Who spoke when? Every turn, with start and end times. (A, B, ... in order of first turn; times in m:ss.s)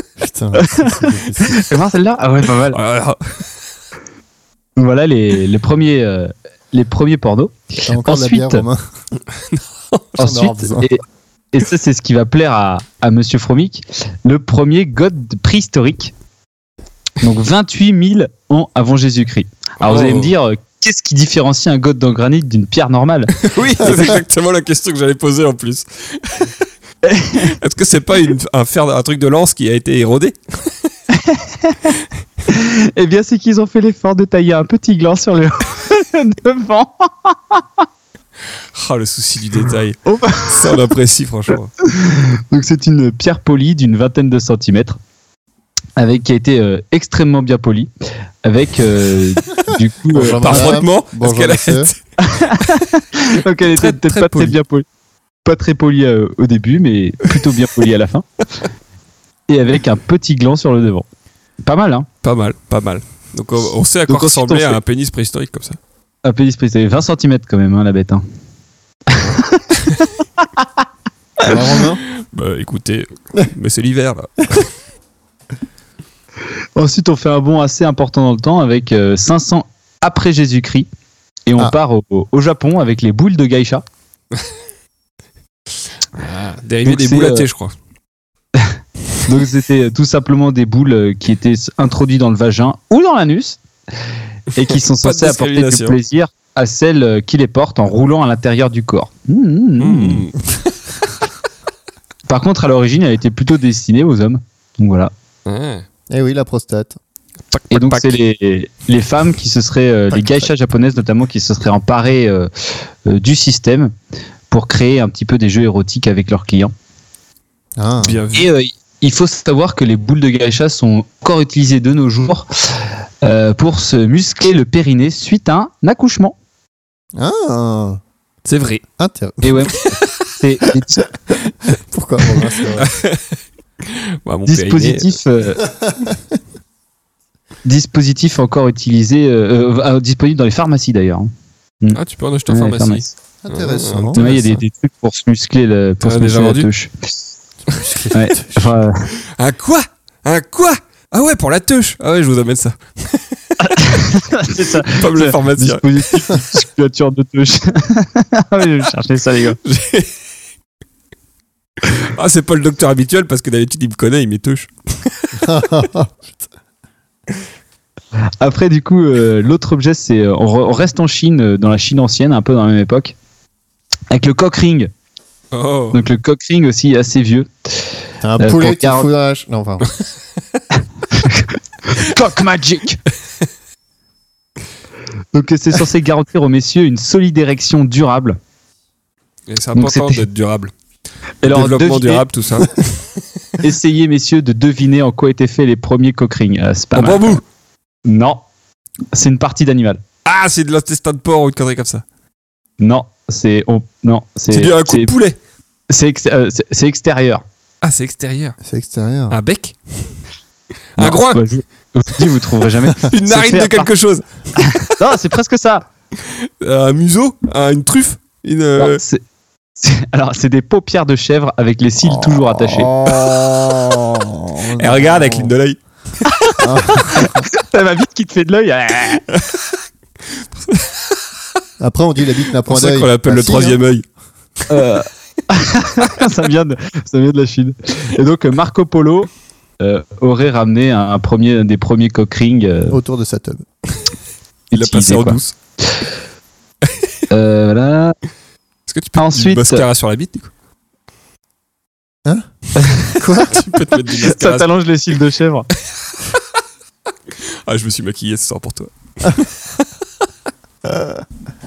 0:00.2-0:01.6 A
0:00.6-0:00.9 B
0:01.4-0:02.8 B
0:02.7-0:03.4 C
0:04.8-0:08.6 B
0:07.9-0:08.8 A
0:09.5-0:10.0 C
0:10.2-0:16.1 B
0:10.2-0:10.9 A
0:17.2-0:24.1 B
0:19.8-0:20.3 C
0:23.4-0:26.5 C
0:27.0-0:27.5 B
0:27.4-0:30.7 C
0:31.1-0:32.0 B
0:32.5-0:37.8 B
0:38.7-0:41.7 C
0:40.1-0:40.8 B
0:41.8-0:45.0 B
0:46.0-0:47.9 B
0:48.4-0:50.8 B
0:50.1-0:51.9 A
0:50.1-0:52.0 C
0:52.2-0:54.8 B
0:53.7-0:54.6 C
0:55.4-0:58.2 B
0:59.5-1:01.1 B
1:01.6-1:02.1 B
1:02.2-1:05.8 C
1:04.1-1:04.8 B
1:06.2-1:08.2 B
1:09.1-1:09.6 B
1:10.4-1:10.7 B
1:11.4-1:12.0 A
1:12.2-1:14.7 C
1:16.8-1:20.9 B
1:21.5-1:23.8 B
1:26.2-1:27.7 C
1:26.8-1:27.5 B
1:28.6-1:33.6 B
1:34.5-1:40.2 B
1:34.7-1:36.0 C
1:39.8-1:40.7 C
1:42.3-1:45.1 B
1:45.5-1:45.9 C
1:46.1-1:47.0 A
1:47.5-1:48.2 C
1:47.7-1:53.9 B
1:50.1-1:50.5 A
1:54.5-1:56.7 B
1:57.8-1:58.2 A
1:58.0-1:58.5 C
1:58.3-2:06.4 B
2:07.2-2:08.0 A
2:08.4-2:08.8 C
2:09.0-2:09.7 A
2:09.4-2:11.1 B
2:09.7-2:10.1 C
2:11.7-2:12.9 A
2:12.7-2:13.2 C
2:13.8-2:15.2 C
2:14.5-2:15.7 B
2:15.8-2:16.2 A
2:17.6-2:21.3 B
2:21.8-2:23.1 B
2:21.9-2:24.6 C
2:23.4-2:24.3 A
2:24.1-2:26.9 B
2:26.0-2:26.7 C
2:27.7-2:28.7 A
2:28.1-2:29.1 B
2:29.3-2:34.0 C
2:33.6-2:39.6 B
2:34.8-2:36.1 C
2:39.6-2:40.1 C
2:41.8-2:45.4 C
2:45.4-2:46.3 A
2:48.4-2:53.2 B
2:54.1-2:54.9 B
2:55.5-2:56.0 C
2:55.9-2:59.1 B
2:58.2-2:59.9 A
3:01.1-3:03.0 B
3:05.3-3:08.4 B
3:09.5-3:10.7 C
3:09.8-3:10.2 B
3:11.4-3:12.3 B
3:11.4-3:13.0 C
3:13.6-3:17.4 B
3:16.9-3:17.4 C
3:18.1-3:18.4 B
3:19.1-3:20.0 B
3:20.2-3:22.0 C
3:22.8-3:25.1 B
3:24.5-3:25.4 C
3:25.9-3:27.4 B
3:27.8-3:28.6 C
3:28.6-3:29.4 A
3:29.3-3:30.2 C
3:31.0-3:31.4 C
3:31.0-3:33.9 B
3:33.0-3:34.9 C
3:34.6-3:35.8 B
3:36.2-3:39.0 C
3:38.8-3:39.2 B
3:39.8-3:42.9 B
3:42.0-3:45.5 A
3:44.8-3:46.5 C
3:46.5-3:49.2 B
3:46.6-3:47.5 A
3:49.3-3:49.6 C
3:50.6-3:51.1 C
3:51.8-3:53.8 A
3:52.7-3:54.0 C
3:54.7-3:59.3 B
3:59.8-4:03.0 B
4:02.9-4:03.6 A
4:04.7-4:05.4 B
4:04.7-4:05.5 C
4:07.3-4:08.2 B
4:08.9-4:10.5 C
4:09.2-4:09.8 B
4:12.8-4:13.1 B
4:13.1-4:13.6 A
4:13.4-4:14.7 C
4:14.2-4:15.7 B
4:17.6-4:19.5 C
4:20.9-4:21.2 A